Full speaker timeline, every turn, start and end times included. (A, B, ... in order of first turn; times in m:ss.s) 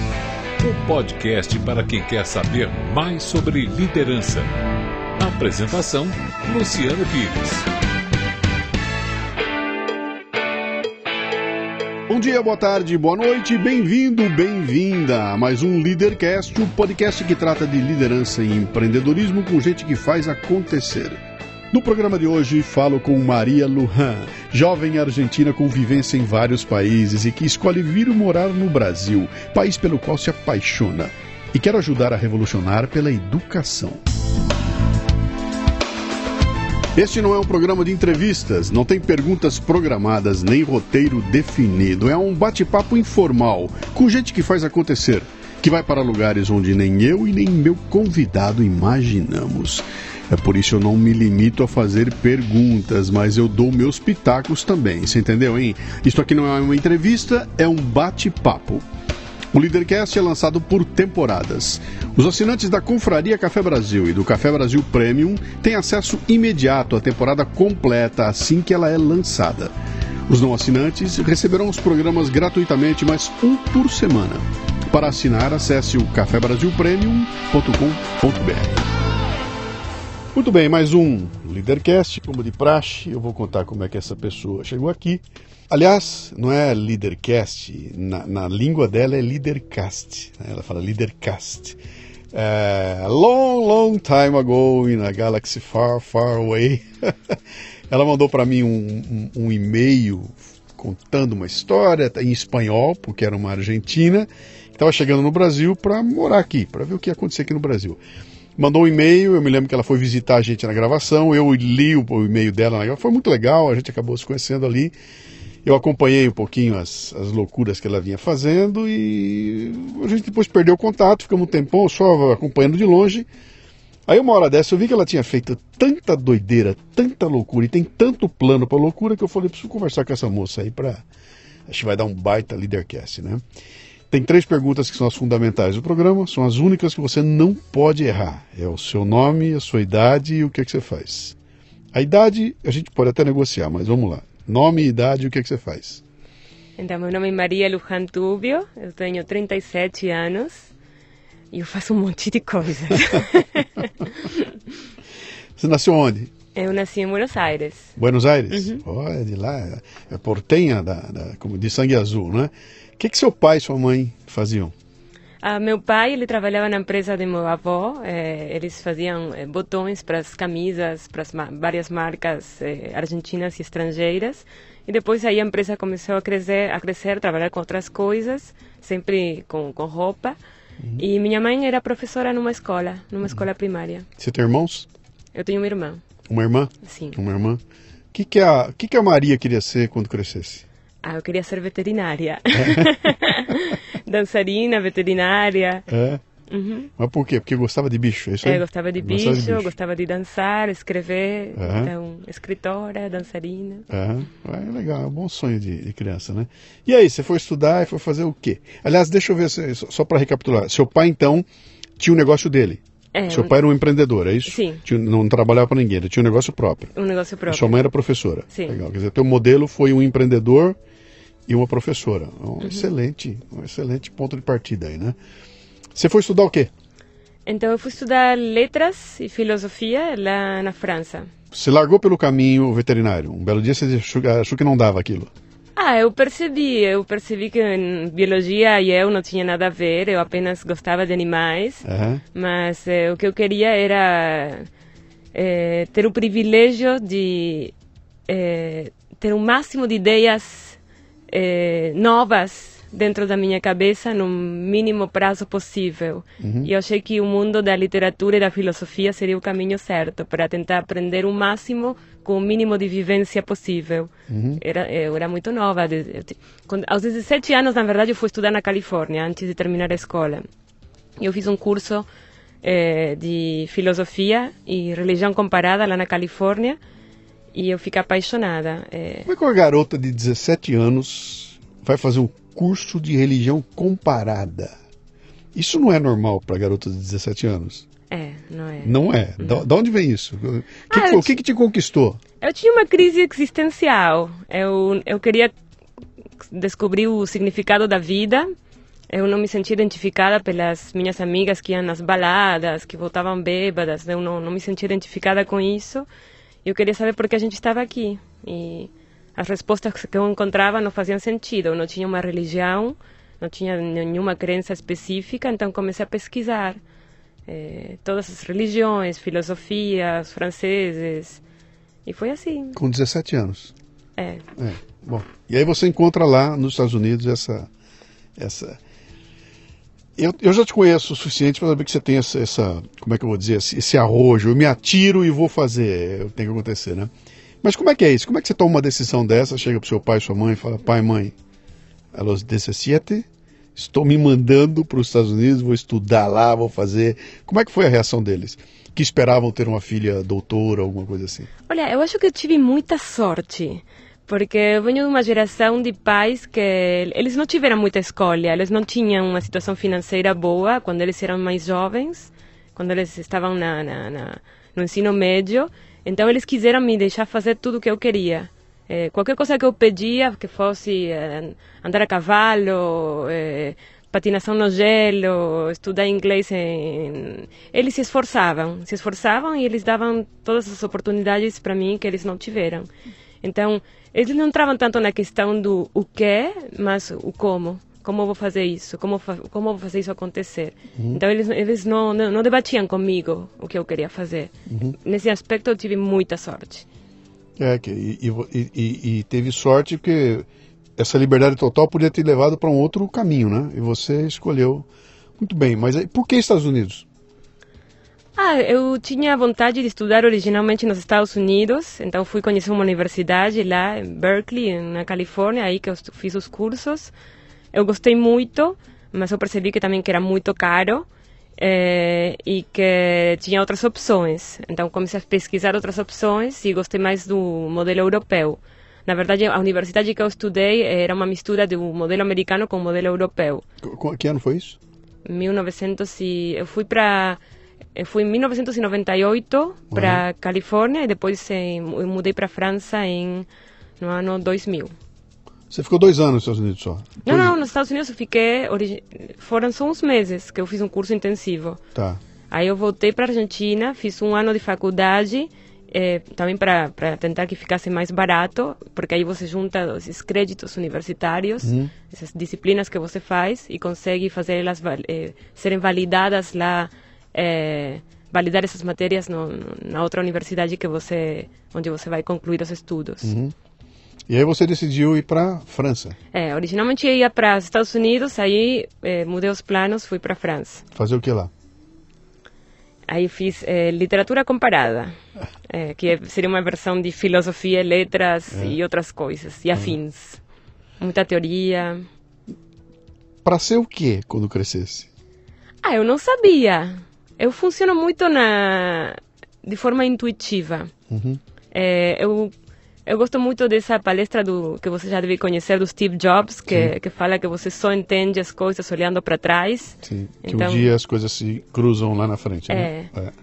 0:00.6-0:04.5 A
0:05.2-0:07.7 A
0:12.1-0:21.2 B
0:21.7-0:34.0 B
0:36.9-0:58.8 B
0:59.5-1:09.7 B
1:10.3-1:18.8 B
1:20.3-1:31.8 B
1:32.3-1:37.4 B
1:37.9-1:48.0 B
1:48.6-1:54.9 B
1:55.6-2:03.3 B
2:04.1-2:11.0 B
2:11.7-2:13.4 B
2:14.1-2:21.4 B
2:21.9-2:26.0 B
2:26.8-2:30.7 C
2:31.5-2:34.5 C
2:35.6-2:36.3 B
2:36.5-2:38.0 C
2:38.0-2:44.7 B
2:38.5-2:38.8 C
2:45.4-3:00.4 C
3:01.0-3:04.0 C
3:04.2-3:04.9 B
3:05.3-3:06.0 C
3:06.3-3:07.6 B
3:06.8-3:07.2 C
3:08.1-3:10.6 B
3:11.0-3:15.9 C
3:12.5-3:12.9 B
3:15.9-3:16.2 B
3:16.5-3:16.9 C
3:17.0-3:19.7 B
3:18.4-3:23.9 C
3:21.6-3:21.9 B
3:23.9-3:31.4 B
3:32.0-3:36.9 B
3:33.1-3:33.5 C
3:34.4-3:34.8 C
3:36.9-3:37.8 C
3:37.5-3:40.8 B
3:38.5-3:38.8 C
3:41.5-3:45.2 B
3:42.6-3:42.9 C
3:45.9-3:46.7 B
3:47.4-3:51.3 C
3:51.5-3:55.3 B
3:55.8-4:04.7 C
4:01.8-4:02.2 B
4:05.3-4:07.7 C
4:08.3-4:10.8 C
4:11.3-4:30.4 C
4:16.4-4:16.7 B
4:24.3-4:24.6 B
4:31.2-4:32.1 C
4:32.6-4:36.8 C
4:37.5-4:39.3 C
4:39.3-4:44.7 B
4:45.5-4:47.8 B
4:48.1-4:49.6 C
4:48.8-4:52.2 B
4:50.9-4:51.4 C
4:52.4-4:55.5 C
4:56.4-4:58.5 C
4:59.1-5:06.1 C
5:06.6-5:16.8 C
5:17.5-5:21.4 C
5:22.0-5:22.8 C
5:22.8-5:23.7 B
5:24.2-5:24.4 C
5:24.6-5:27.7 B
5:28.4-5:28.8 B
5:30.2-5:37.1 B
5:37.6-5:41.3 B
5:42.1-5:51.5 B
5:51.7-6:22.9 C
6:23.4-6:36.8 C
6:31.0-6:31.2 B
6:34.7-6:34.9 B
6:37.6-6:44.9 B
6:45.4-6:47.0 B
6:48.4-6:57.1 C
6:57.7-7:13.6 C
7:13.8-7:14.8 B
7:15.2-7:17.4 C
7:17.9-7:23.4 C
7:19.9-7:20.2 B
7:24.0-7:24.9 C
7:25.7-7:27.5 B
7:27.2-7:31.8 C
7:31.9-7:32.2 B
7:32.5-7:53.3 C
7:41.6-7:41.9 B
7:53.2-7:53.5 B
7:54.3-7:56.2 B
7:56.3-8:00.8 C
8:00.9-8:01.5 B
8:03.1-8:05.2 C
8:05.7-8:10.4 C
8:08.5-8:08.8 B
8:11.0-8:12.0 C
8:13.4-8:15.1 B
8:15.8-8:20.9 C
8:21.1-8:21.4 B
8:21.7-8:22.5 C
8:23.0-8:30.9 C
8:26.7-8:26.9 B
8:30.0-8:33.3 B
8:32.7-8:33.1 C